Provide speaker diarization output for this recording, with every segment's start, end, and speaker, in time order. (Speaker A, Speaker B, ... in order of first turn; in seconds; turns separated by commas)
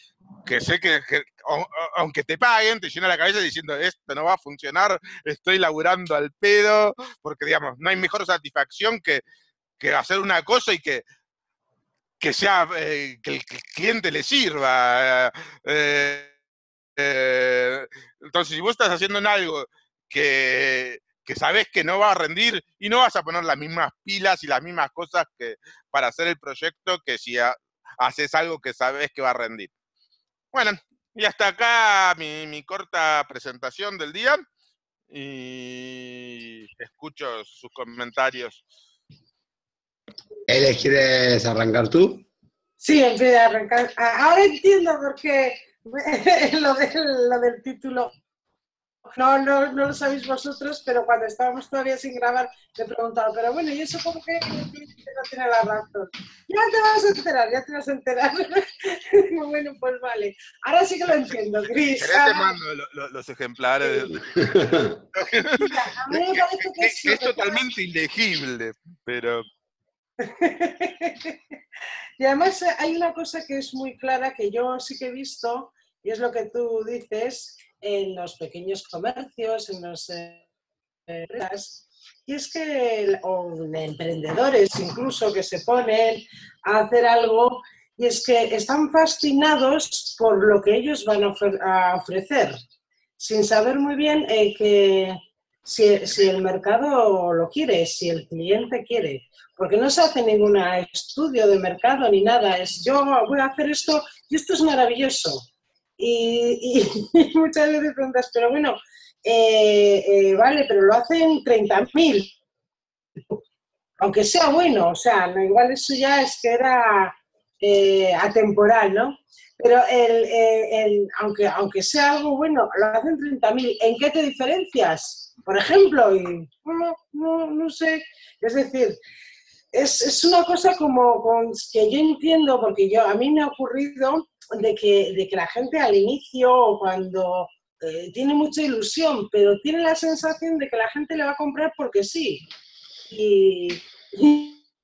Speaker A: 0.4-9.2, Speaker A: 9.8-11.0, Speaker A: 12.2-16.3, Speaker A: 16.9-29.7, Speaker A: 30.5-34.4, Speaker A: 35.1-38.6, Speaker B: 40.5-42.3, Speaker C: 42.8-48.1, Speaker C: 49.1-62.6, Speaker A: 62.0-64.2, Speaker B: 64.2-65.0, Speaker A: 65.1-69.5, Speaker C: 65.5-67.6, Speaker C: 70.2-71.4, Speaker C: 72.2-80.4, Speaker C: 81.1-92.6, Speaker C: 93.2-112.3, Speaker C: 114.0-129.0, Speaker C: 129.7-142.4, Speaker C: 143.1-144.6